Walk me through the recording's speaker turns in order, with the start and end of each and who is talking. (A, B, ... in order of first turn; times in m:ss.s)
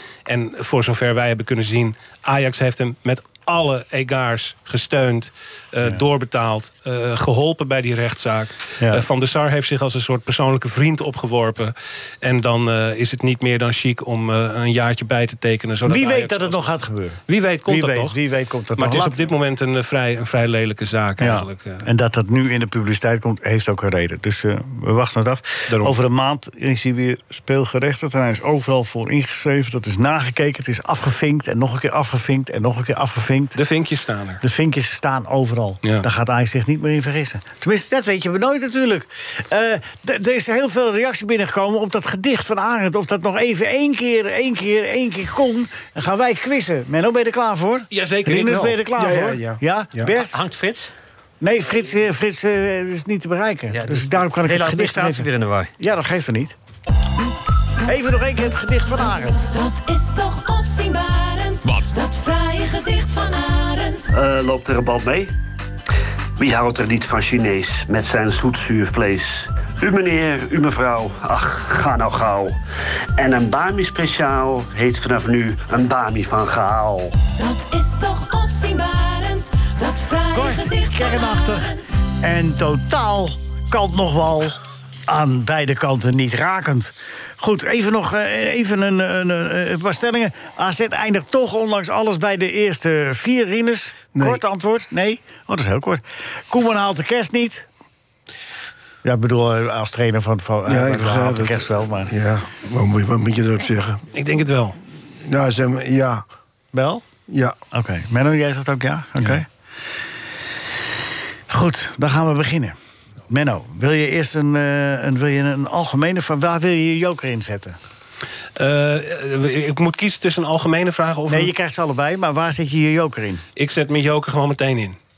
0:00.3-0:16.7 A
0:08.8-0:09.1 B
0:15.8-0:19.3 B
0:17.3-0:18.2 A
0:18.8-0:21.9 A
0:21.2-0:33.6 B
0:25.7-0:26.0 A
0:33.6-0:34.4 A
0:34.4-0:50.4 B
0:47.9-0:48.9 A
0:49.0-0:50.1 C
0:50.1-0:50.9 D
0:51.4-0:55.3 B
0:53.7-0:55.7 D
0:55.8-0:56.6 B
0:57.8-0:59.5 B
0:59.5-1:04.1 E
1:04.1-1:05.3 F
1:06.4-1:12.6 F
1:13.2-1:17.1 F
1:17.4-1:21.9 E
1:20.3-1:37.7 B
1:34.2-1:34.4 C
1:39.0-1:42.1 B
1:40.7-1:44.1 C
1:44.1-1:44.8 A
1:45.2-1:46.2 C
1:46.7-1:47.0 B
1:47.3-1:47.6 C
1:47.7-1:49.5 B
1:51.5-1:52.8 B
1:53.3-1:57.8 B
1:58.6-2:01.5 A
2:01.3-2:03.4 B
2:03.6-2:05.0 A